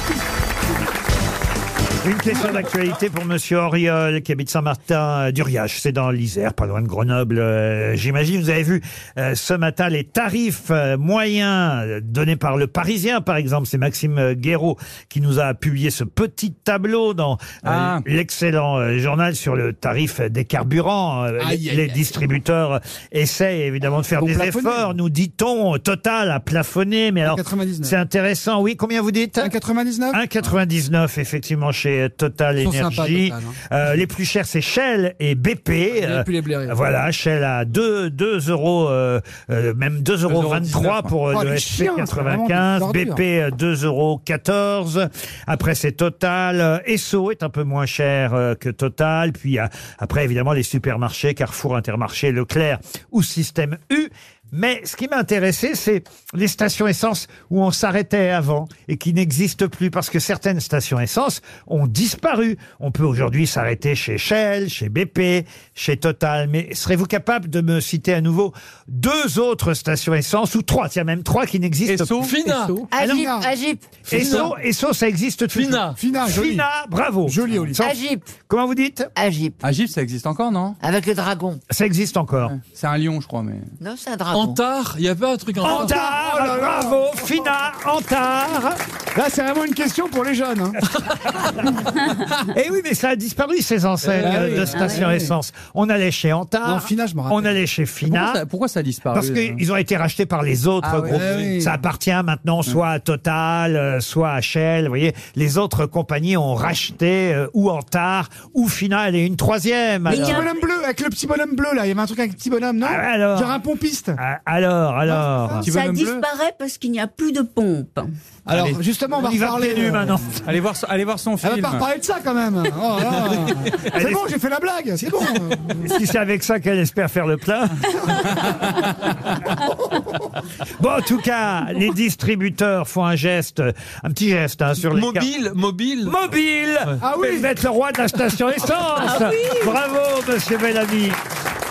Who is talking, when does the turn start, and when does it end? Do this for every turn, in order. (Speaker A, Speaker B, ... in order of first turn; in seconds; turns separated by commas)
Speaker A: 2.0-29.5, Speaker B: 17.6-18.0, Speaker C: 21.4-22.0, Speaker C: 24.1-24.9, Speaker C: 27.2-27.9, Speaker C: 29.4-30.2, Speaker A: 30.1-72.3, Speaker C: 32.6-33.6, Speaker C: 35.9-36.8, Speaker B: 40.3-41.1, Speaker C: 41.3-43.2, Speaker B: 71.9-72.5, Speaker D: 72.2-72.8, Speaker E: 72.9-74.0, Speaker A: 73.0-73.2, Speaker C: 73.0-73.5, Speaker A: 74.1-78.0, Speaker C: 74.1-74.5, Speaker D: 75.5-76.0, Speaker C: 76.0-76.7, Speaker C: 77.2-77.8, Speaker E: 77.8-78.3, Speaker A: 78.5-79.1, Speaker E: 79.2-79.6, Speaker B: 79.6-80.8, Speaker E: 80.8-81.6, Speaker A: 81.7-82.5, Speaker B: 82.5-83.7, Speaker E: 83.8-84.6, Speaker D: 84.3-86.0, Speaker C: 85.6-87.2, Speaker A: 85.6-88.8, Speaker C: 89.1-90.8, Speaker A: 92.5-98.4, Speaker C: 94.1-95.3, Speaker F: 94.7-95.0, Speaker C: 96.6-97.5, Speaker B: 98.1-99.6, Speaker A: 99.1-110.5, Speaker B: 100.8-101.3, Speaker C: 101.1-101.8, Speaker F: 110.1-110.5, Speaker C: 110.1-114.2, Speaker A: 112.8-113.6, Speaker A: 114.2-115.6, Speaker C: 115.1-115.6, Speaker B: 115.6-116.2, Speaker F: 115.6-118.1, Speaker C: 118.5-120.2, Speaker B: 118.5-118.8, Speaker A: 119.2-120.4, Speaker B: 120.4-121.8, Speaker C: 121.4-125.9, Speaker A: 123.9-124.3, Speaker A: 125.8-128.3, Speaker A: 130.8-135.3, Speaker D: 134.9-136.2, Speaker A: 136.0-141.2, Speaker C: 137.0-137.5, Speaker F: 139.0-139.8